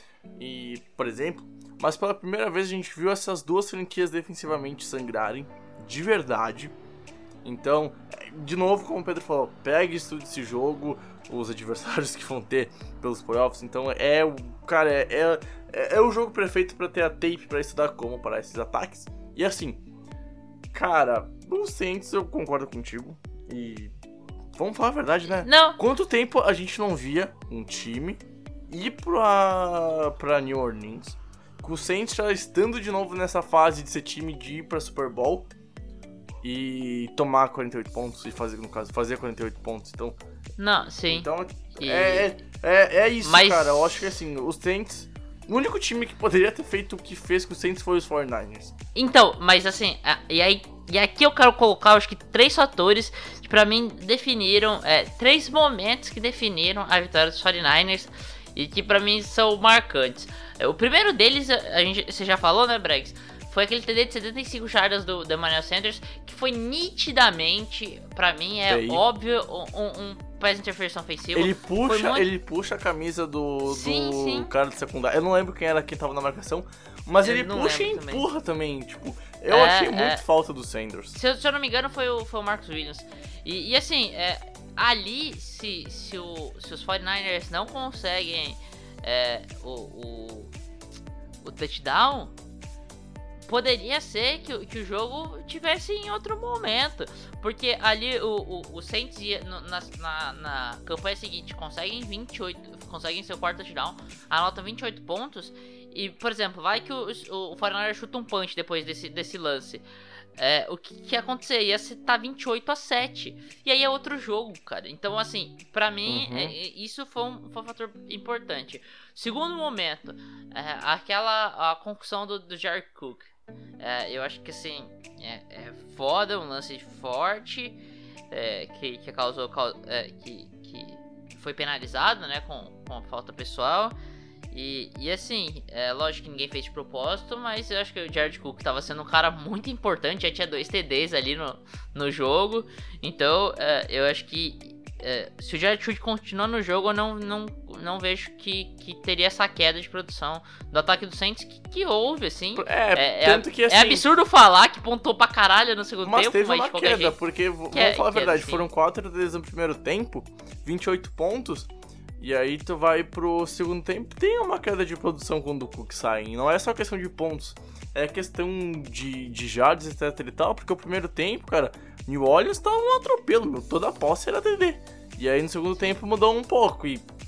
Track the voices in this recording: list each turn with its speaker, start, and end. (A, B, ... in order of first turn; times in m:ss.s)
0:00.4-0:06.7 A
0:07.4-0:19.8 A
0:20.7-0:23.9 A
0:24.6-0:35.5 A
0:25.4-0:25.8 B
0:36.4-0:40.2 A
0:40.6-0:42.3 B
0:41.1-0:48.7 A
0:43.2-0:44.0 B
0:49.0-1:12.3 B
1:08.7-1:09.0 A
1:11.4-1:21.2 A
1:13.7-1:14.5 B
1:17.2-1:18.3 B
1:19.5-1:20.2 B
1:21.1-1:30.5 B
1:31.4-1:32.3 B
1:33.5-1:49.8 B
1:50.4-2:03.3 B
1:56.1-1:56.6 A
2:03.8-2:07.8 B
2:08.3-2:14.0 B
2:14.5-2:37.2 B
2:32.6-2:34.1 A
2:36.1-2:57.0 A
2:37.7-2:38.7 B